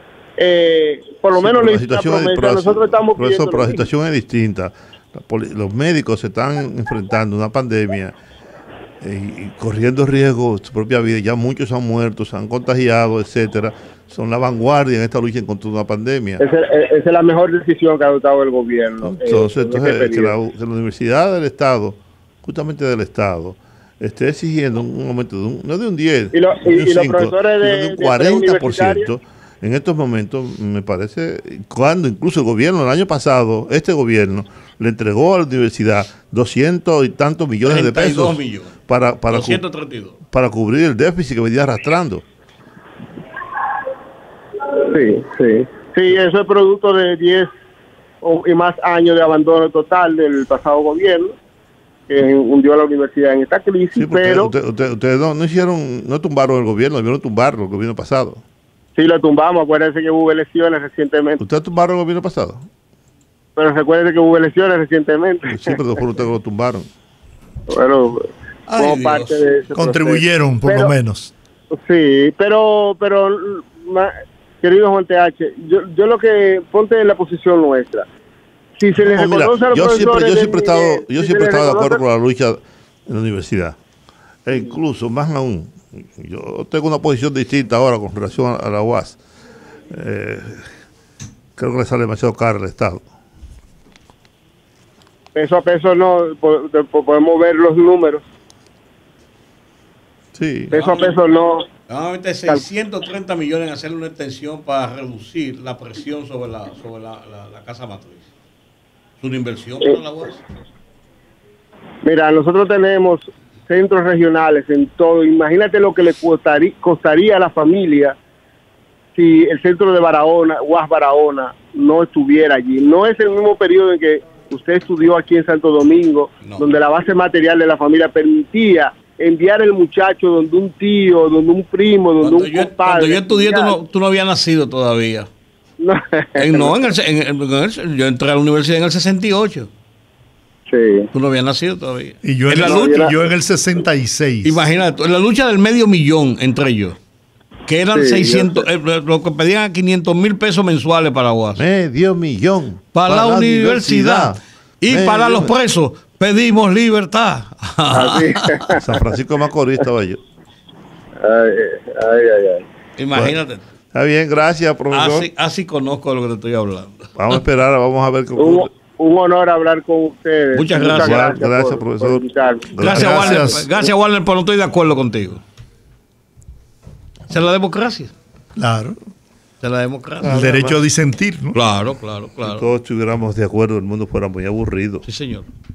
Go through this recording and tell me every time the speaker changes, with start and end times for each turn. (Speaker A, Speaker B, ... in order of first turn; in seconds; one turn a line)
Speaker A: 0.4-3.9
Speaker B: 1.4-8.2
Speaker B: 9.0-16.4
Speaker A: 16.4-20.3
Speaker B: 19.0-39.6
Speaker A: 26.3-29.1
Speaker C: 37.6-38.7
Speaker C: 39.3-40.1
Speaker B: 40.3-42.2
Speaker A: 44.8-47.5
Speaker A: 48.2-51.3
Speaker A: 52.1-54.5
Speaker B: 54.0-58.4
Speaker A: 59.0-61.4
Speaker B: 61.4-62.6
Speaker A: 63.5-65.8
Speaker B: 65.5-66.9
Speaker A: 67.7-70.9
Speaker C: 68.7-69.4
Speaker D: 69.7-71.3
Speaker A: 71.7-78.0
Speaker A: 78.8-82.0
Speaker B: 79.0-83.8
Speaker B: 84.5-89.2
Speaker B: 89.9-90.6
Speaker B: 91.6-93.1
Speaker A: 95.3-98.2
Speaker B: 100.3-100.7
Speaker C: 100.7-101.1
Speaker A: 100.7-101.7
Speaker C: 101.9-108.3
Speaker C: 109.2-110.4
Speaker A: 112.0-118.2
Speaker A: 119.1-133.8
Speaker C: 132.2-135.3
Speaker A: 135.8-136.8
Speaker C: 136.4-139.7
Speaker A: 140.7-141.1
Speaker C: 141.1-143.1
Speaker D: 142.2-144.6
Speaker A: 142.6-143.1
Speaker C: 144.4-147.0
Speaker C: 147.7-151.6
Speaker A: 147.9-148.6
Speaker B: 151.6-155.5
Speaker C: 152.9-158.8
Speaker A: 157.9-158.8
Speaker B: 158.8-160.2
Speaker A: 161.2-162.6
Speaker C: 163.0-163.6
Speaker B: 163.9-165.3
Speaker C: 164.9-167.1
Speaker B: 167.2-168.7
Speaker A: 168.4-172.7
Speaker C: 170.5-171.3
Speaker B: 170.9-173.7
Speaker C: 172.8-175.4
Speaker D: 172.8-173.7
Speaker C: 177.3-178.1
Speaker D: 178.6-179.0
Speaker C: 179.6-180.7
Speaker D: 180.2-181.6
Speaker B: 180.3-180.7
Speaker C: 181.5-182.6
Speaker B: 182.4-185.1
Speaker C: 185.1-185.5